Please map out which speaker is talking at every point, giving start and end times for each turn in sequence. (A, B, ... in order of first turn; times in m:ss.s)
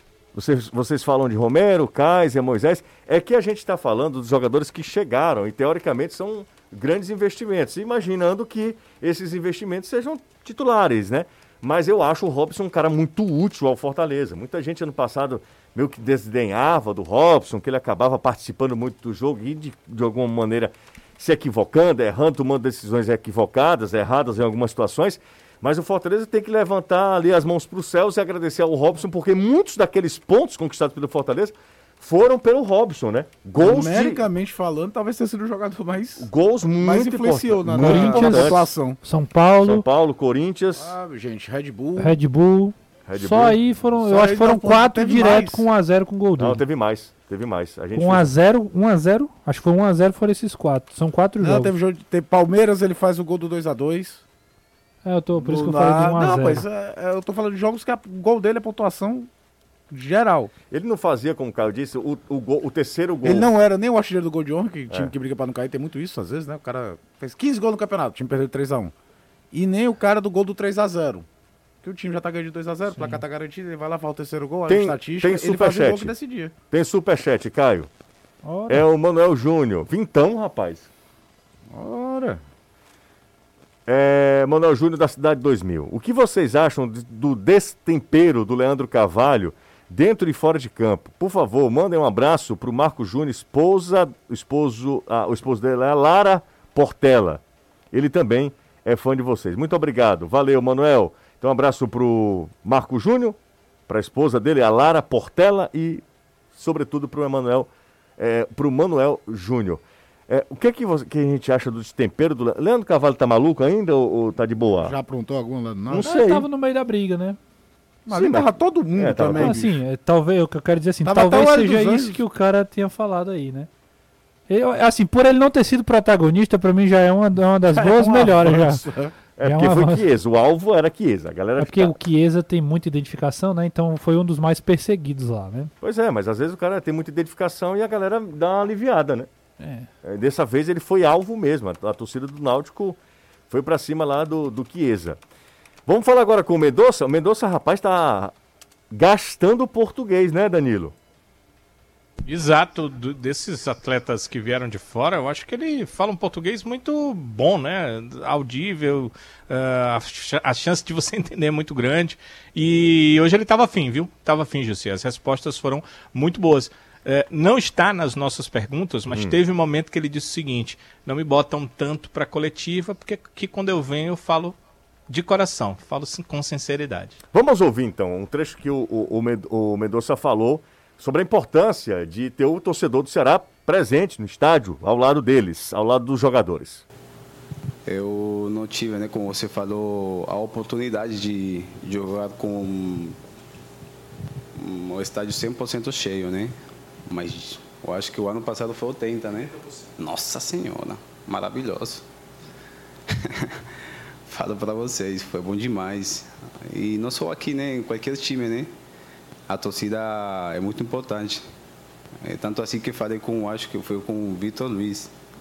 0:00.3-0:34.2 A
0:33.6-0:36.3 B
0:36.2-0:38.6 A
0:36.8-0:39.0 B
0:37.8-0:39.8 C
0:39.6-0:40.9 A
0:40.8-0:42.2 B
0:42.0-0:46.6 C
0:43.1-0:43.6 A
0:44.0-0:45.7 B
0:46.4-0:48.3 A
0:47.9-0:51.7 C
0:51.4-0:54.2 B
0:55.0-0:56.6 C
0:55.3-0:59.3 B
0:59.9-1:00.5 B
1:00.7-1:03.5 A
1:03.2-1:08.9 B
1:09.5-1:11.2 B
1:11.8-1:16.5 B
1:12.9-1:13.2 C
1:14.7-1:16.1 A
1:16.7-1:17.9 A
1:18.4-1:18.8 C
1:18.7-1:20.9 A
1:21.7-1:22.4 B
1:23.8-1:43.4 A
1:43.9-1:46.0 A
1:46.5-1:54.9 A
1:54.8-1:56.1 B
1:55.9-1:56.4 A
1:56.0-1:57.4 C
1:58.1-1:59.7 B
1:58.1-1:59.6 A
1:59.4-2:03.7 C
2:01.0-2:02.2 B
2:04.5-2:08.8 C
2:07.7-2:09.1 B
2:09.4-2:11.9 A
2:09.4-2:10.1 C
2:11.6-2:15.7 C
2:15.8-2:19.3 A
2:19.6-2:19.9 C
2:20.0-2:23.0 A
2:23.5-2:25.2 A
2:25.9-2:28.3 A
2:28.9-2:30.9 A
2:32.2-2:54.6 D
2:49.1-2:49.4 A
2:55.1-2:57.2 D
2:57.3-3:06.8 A
3:07.8-3:13.2 E
3:14.6-3:16.6 E
3:17.1-3:22.0 E
3:23.1-3:23.6 E
3:24.3-3:28.7 E
3:29.5-3:31.4 E
3:32.2-3:35.1 E